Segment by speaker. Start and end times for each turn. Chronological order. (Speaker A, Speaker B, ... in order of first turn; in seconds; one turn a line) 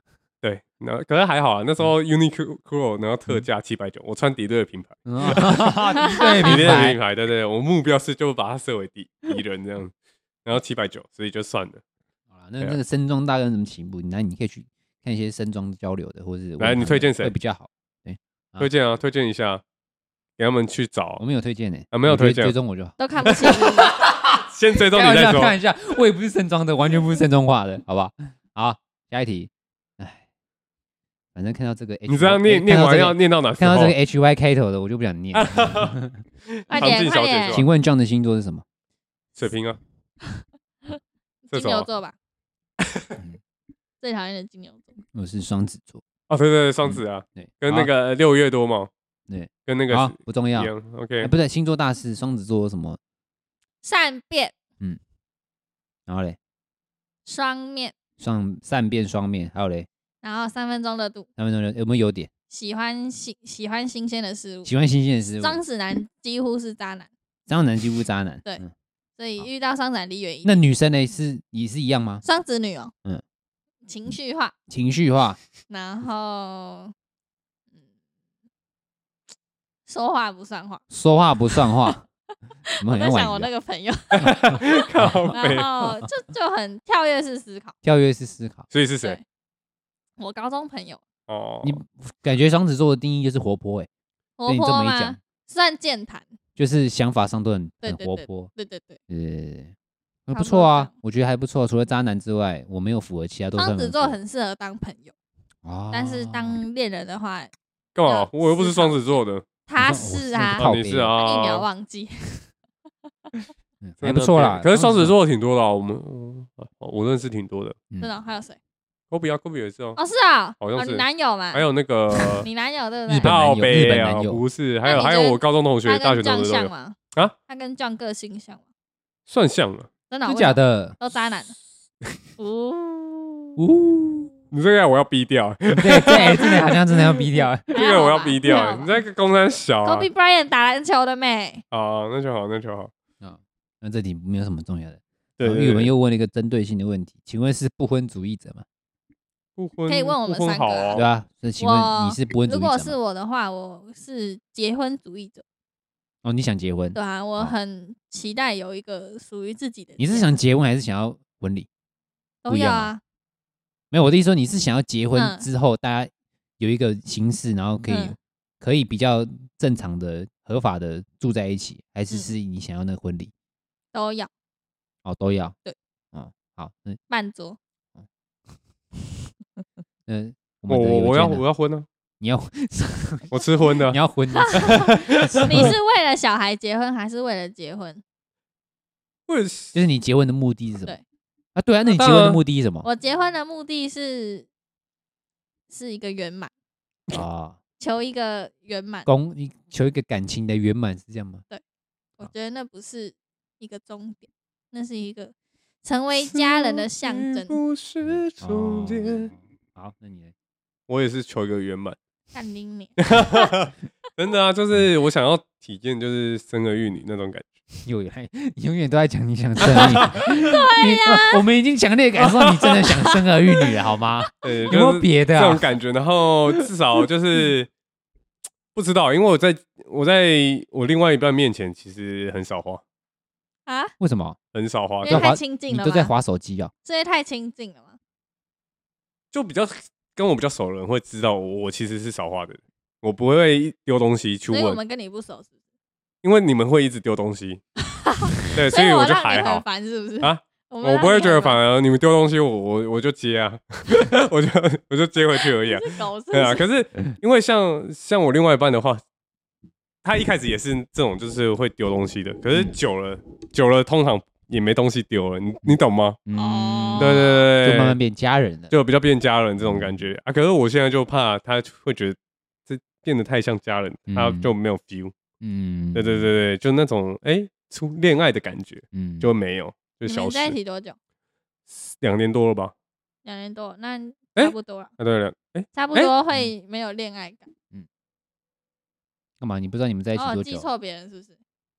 Speaker A: 0.4-5.8
Speaker B: 5.0-7.0
Speaker C: 6.0-6.8
Speaker A: 6.4-9.9
Speaker A: 10.4-11.8
Speaker B: 12.3-18.7
Speaker A: 16.6-17.3
Speaker A: 18.6-19.6
Speaker A: 20.4-21.2
Speaker B: 21.2-30.2
Speaker A: 21.9-22.5
Speaker C: 23.0-23.9
Speaker A: 24.5-25.5
Speaker B: 31.3-36.2
Speaker A: 32.1-33.9
Speaker A: 35.3-35.9
Speaker A: 36.7-37.6
Speaker C: 36.7-37.6
Speaker B: 36.8-38.6
Speaker A: 39.4-39.8
Speaker C: 40.4-40.9
Speaker C: 41.5-42.1
Speaker A: 41.5-41.9
Speaker C: 44.0-44.9
Speaker B: 45.1-46.0
Speaker A: 46.3-48.9
Speaker B: 46.8-47.9
Speaker B: 49.3-53.0
Speaker A: 49.6-51.3
Speaker C: 53.8-54.5
Speaker B: 56.1-56.4
Speaker C: 57.2-57.9
Speaker B: 58.2-59.9
Speaker C: 60.2-61.3
Speaker B: 61.4-62.3
Speaker C: 62.5-64.7
Speaker B: 64.7-65.6
Speaker C: 65.4-67.1
Speaker B: 67.5-68.7
Speaker C: 69.2-70.5
Speaker B: 70.4-72.2
Speaker C: 72.2-72.9
Speaker C: 73.9-74.5
Speaker B: 74.7-75.4
Speaker C: 75.7-76.9
Speaker C: 79.9-80.8
Speaker B: 80.9-82.0
Speaker C: 81.5-81.9
Speaker C: 82.7-87.7
Speaker B: 82.8-83.5
Speaker A: 84.1-85.7
Speaker B: 85.0-86.1
Speaker B: 87.8-88.7
Speaker A: 88.7-89.2
Speaker C: 90.2-91.0
Speaker A: 91.3-91.8
Speaker B: 91.6-93.9
Speaker C: 94.4-96.3
Speaker B: 94.5-95.2
Speaker B: 96.5-98.5
Speaker C: 97.8-99.0
Speaker B: 99.1-99.7
Speaker B: 100.2-104.2
Speaker C: 100.3-100.9
Speaker C: 103.5-105.1
Speaker B: 105.6-106.6
Speaker C: 105.9-107.5
Speaker A: 107.9-109.4
Speaker C: 108.0-112.5
Speaker B: 109.8-111.1
Speaker A: 110.6-111.7
Speaker B: 113.8-115.1
Speaker A: 114.0-117.8
Speaker C: 118.0-118.6
Speaker A: 119.1-120.0
Speaker C: 120.0-121.6
Speaker A: 120.6-122.5
Speaker C: 122.4-123.3
Speaker B: 123.1-124.4
Speaker A: 123.2-127.3
Speaker C: 124.8-128.6
Speaker A: 129.3-129.9
Speaker C: 130.1-131.5
Speaker B: 130.2-130.9
Speaker C: 132.4-133.6
Speaker B: 133.6-134.3
Speaker A: 134.5-136.9
Speaker B: 135.7-137.7
Speaker C: 137.7-138.9
Speaker A: 137.7-140.1
Speaker C: 139.8-141.6
Speaker A: 141.7-142.9
Speaker B: 143.2-148.6
Speaker A: 145.4-145.9
Speaker A: 149.6-151.0
Speaker C: 149.9-151.0
Speaker B: 150.9-152.9
Speaker C: 151.6-155.4
Speaker B: 156.2-157.5
Speaker C: 156.9-160.3
Speaker B: 160.0-161.7
Speaker C: 162.4-163.0
Speaker B: 162.5-162.9
Speaker B: 163.9-173.3
Speaker C: 165.1-165.4
Speaker C: 167.9-168.1
Speaker C: 173.9-174.3
Speaker B: 175.0-175.6
Speaker B: 176.1-177.0
Speaker C: 177.1-177.6
Speaker B: 180.1-181.4
Speaker A: 180.7-181.8
Speaker B: 182.2-183.3
Speaker A: 183.3-184.0
Speaker B: 183.9-185.7
Speaker C: 184.4-184.9
Speaker A: 184.7-185.7
Speaker C: 185.4-188.0
Speaker A: 189.3-189.7
Speaker B: 189.7-190.9
Speaker B: 191.5-192.9
Speaker A: 191.8-192.4
Speaker C: 192.8-194.5
Speaker C: 195.7-196.5
Speaker B: 197.1-197.6
Speaker C: 197.8-199.1
Speaker B: 199.1-201.4
Speaker C: 202.2-207.6
Speaker A: 206.1-209.3
Speaker B: 208.0-210.3
Speaker A: 210.9-212.0
Speaker C: 212.3-213.5
Speaker A: 213.1-217.5
Speaker B: 217.8-225.6
Speaker A: 219.6-220.1
Speaker C: 220.1-221.4
Speaker A: 222.2-222.9
Speaker A: 224.4-227.7
Speaker A: 228.7-232.8
Speaker C: 233.7-233.9
Speaker B: 234.0-234.4
Speaker A: 234.5-235.3
Speaker C: 235.0-236.1
Speaker B: 235.0-236.7
Speaker C: 236.8-237.9
Speaker A: 239.3-244.8
Speaker C: 244.5-245.5
Speaker A: 246.2-247.6
Speaker C: 247.9-251.6
Speaker A: 248.5-249.6
Speaker A: 250.2-259.0
Speaker C: 255.6-256.6
Speaker A: 260.0-266.2
Speaker B: 265.6-268.7
Speaker C: 266.3-267.4
Speaker A: 267.0-268.0
Speaker A: 268.7-275.1
Speaker B: 269.6-269.9
Speaker B: 274.1-274.5
Speaker B: 275.4-276.3
Speaker A: 275.9-280.6
Speaker B: 278.9-279.3
Speaker C: 280.0-280.9
Speaker A: 281.7-282.7
Speaker C: 283.2-284.9
Speaker A: 284.4-286.1
Speaker C: 285.7-287.5
Speaker B: 289.4-290.7
Speaker C: 290.1-291.4